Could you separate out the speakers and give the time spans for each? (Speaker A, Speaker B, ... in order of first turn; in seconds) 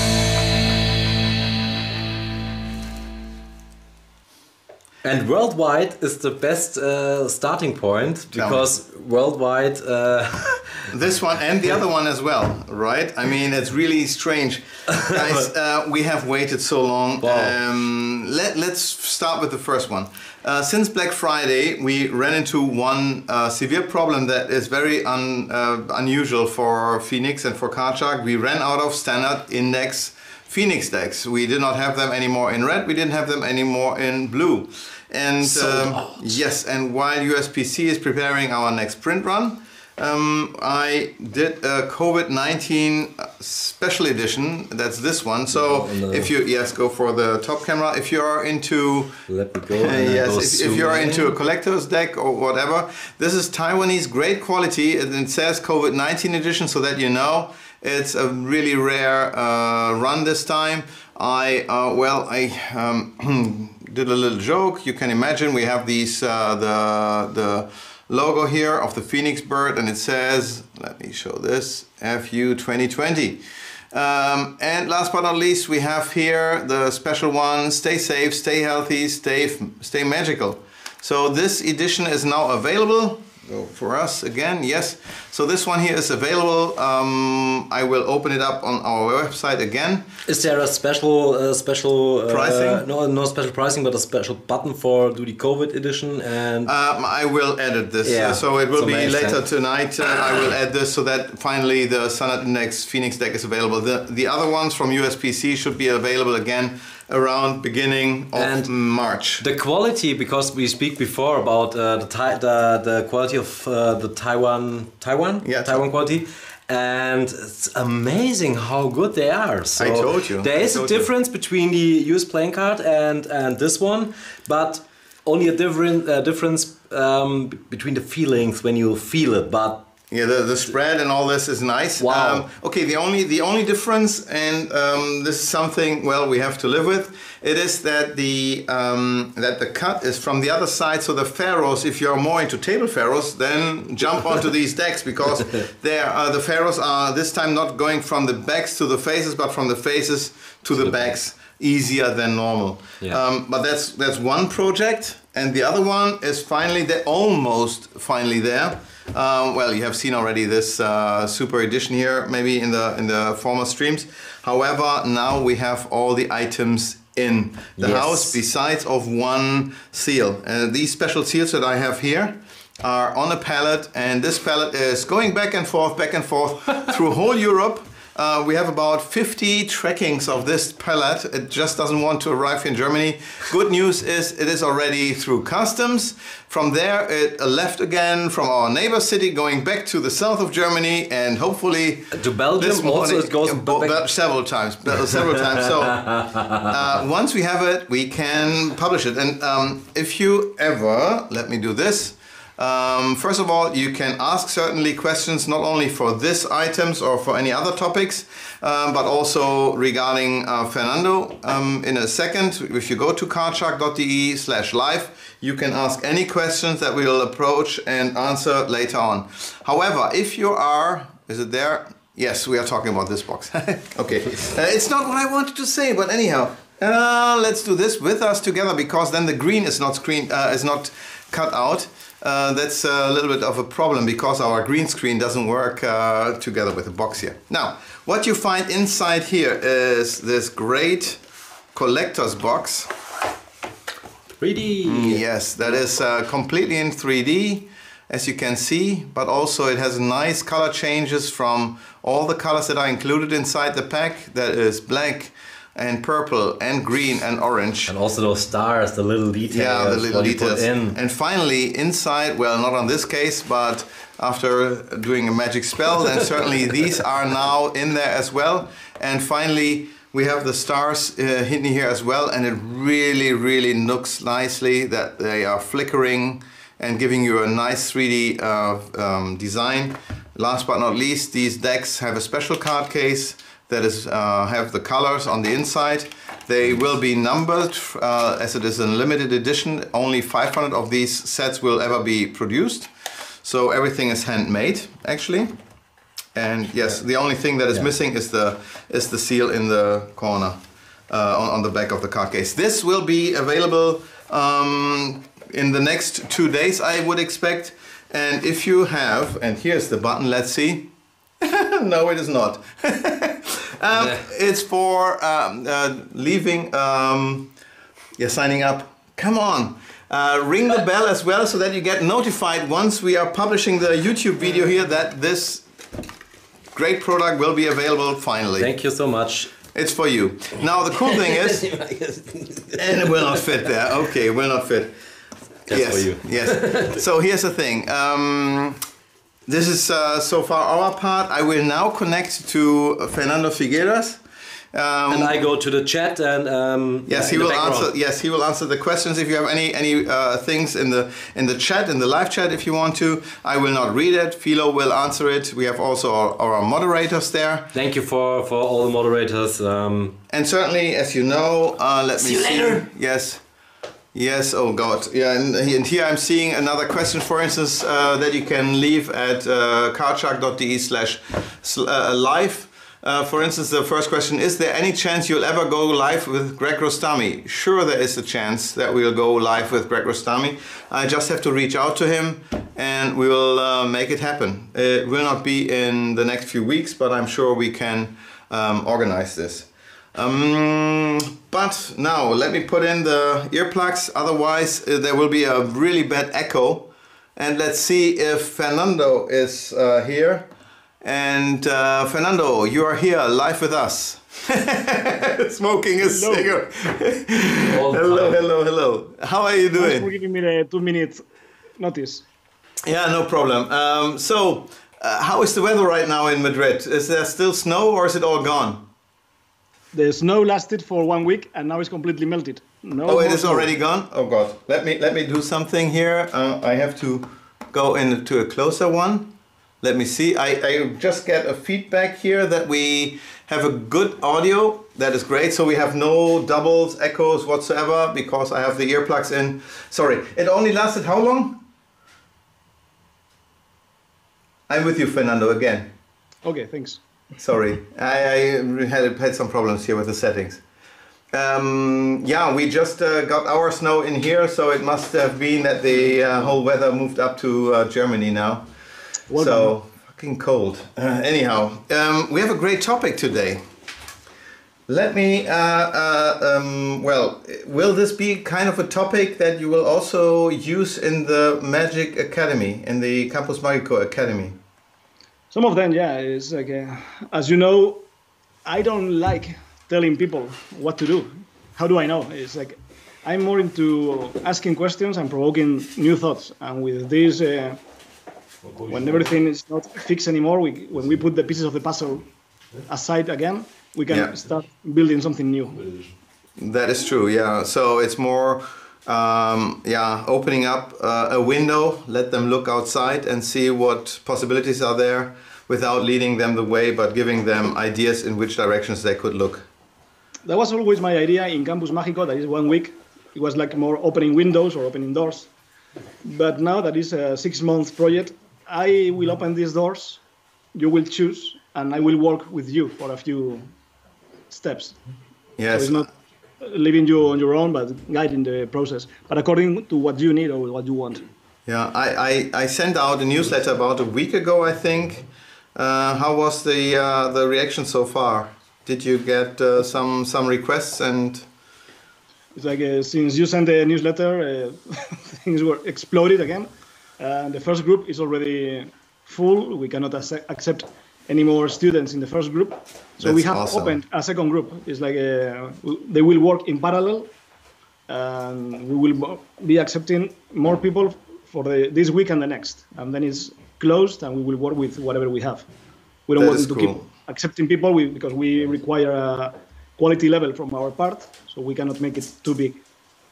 Speaker A: 5.0-10.9, 17.2-17.6, 35.4-36.4, 45.5-46.3, 49.3-51.4, 90.3-96.7, 98.0-99.5, 108.3-108.7, 109.4-129.8, 132.0-132.5, 167.8-168.4, 192.1-194.0, 195.3-196.7, 244.4-245.2, 257.9-261.0, 328.6-329.5, 330.9-333.4, 335.7-337.0, 345.1-347.9, 357.7-360.2, 362.2-362.8, 407.6-408.4, 488.6-489.2
Speaker B: 8.3-8.7, 10.9-49.2, 49.7-90.1, 92.3-92.8, 96.7-109.5, 115.4-115.9, 119.8-121.1, 130.1-241.2, 241.7-243.0, 244.8-257.9, 259.5-295.5, 296.4-310.9, 311.4-317.5, 318.2-325.6, 326.7-328.7, 329.7-331.7, 332.8-334.9, 335.7-338.8, 339.5-344.2, 344.7-345.4, 347.1-357.7, 360.3-363.4, 364.1-400.5, 401.0-410.1, 412.9-418.9, 423.1-441.6, 444.7-445.9, 447.4-450.6, 451.3-458.7, 459.3-463.6, 464.9-474.6, 496.6-509.7, 525.6-526.1, 531.7-541.5, 553.2-554.0, 566.4-567.0
Speaker C: 406.0-406.5, 409.8-411.2, 411.8-412.3, 419.9-423.7, 446.4-447.0, 459.3-459.7, 475.5-478.1, 478.7-487.8, 488.9-492.3, 492.9-495.8, 510.4-515.5, 516.2-520.2, 520.8-523.7, 524.5-525.0, 525.7-526.1, 526.6-531.2, 542.5-557.3, 558.1-565.7, 566.3-572.8